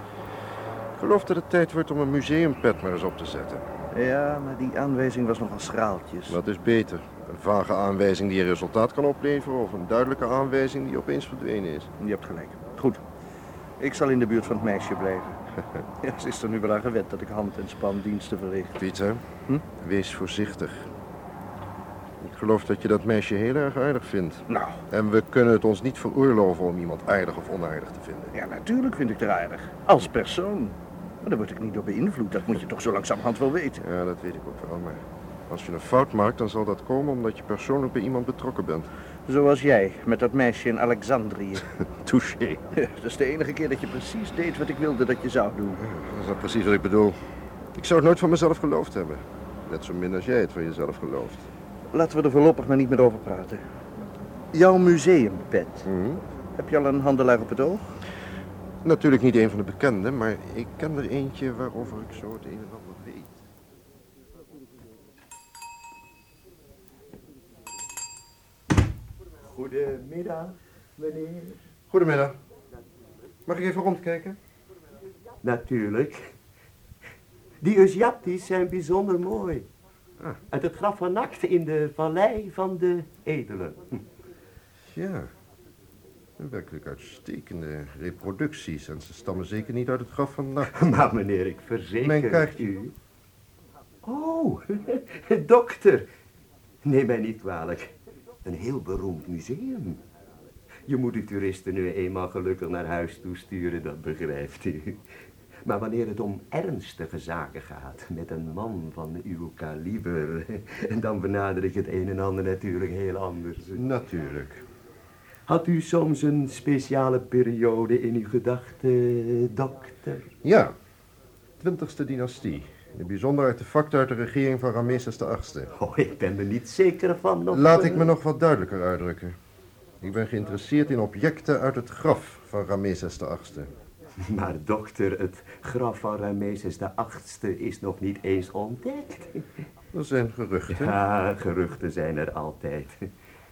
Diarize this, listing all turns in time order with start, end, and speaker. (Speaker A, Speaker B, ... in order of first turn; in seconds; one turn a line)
Speaker A: 0.9-3.6
Speaker B: 3.9-6.4
Speaker A: 6.3-11.9
Speaker B: 12.0-13.0
Speaker B: 13.8-15.4
Speaker B: 16.0-18.7
Speaker A: 18.8-20.9
Speaker A: 22.2-28.3
Speaker B: 24.5-24.8
Speaker B: 28.3-33.8
Speaker A: 33.8-38.9
Speaker B: 39.3-41.6
Speaker A: 41.9-42.6
Speaker B: 42.7-45.8
Speaker A: 45.8-47.2
Speaker A: 47.8-51.5
Speaker B: 51.9-53.6
Speaker B: 54.5-55.9
Speaker A: 55.9-56.2
Speaker B: 56.5-57.9
Speaker A: 58.8-63.4
Speaker C: 69.4-71.6
Speaker A: 71.9-72.3
Speaker A: 73.5-74.4
Speaker C: 75.4-76.3
Speaker C: 77.6-79.7
Speaker C: 80.5-84.0
Speaker A: 84.9-85.3
Speaker A: 86.4-90.8
Speaker C: 90.7-92.9
Speaker A: 92.0-92.7
Speaker C: 94.0-96.1
Speaker C: 96.8-97.9
Speaker C: 98.4-100.0
Speaker C: 100.9-105.0
Speaker C: 105.6-113.8
Speaker A: 113.7-114.6
Speaker C: 115.5-120.3
Speaker A: 120.4-120.7
Speaker A: 121.6-125.7
Speaker C: 125.8-128.1
Speaker A: 127.5-129.3
Speaker A: 130.0-133.7
Speaker C: 134.2-139.5
Speaker A: 139.9-140.9
Speaker C: 140.7-143.1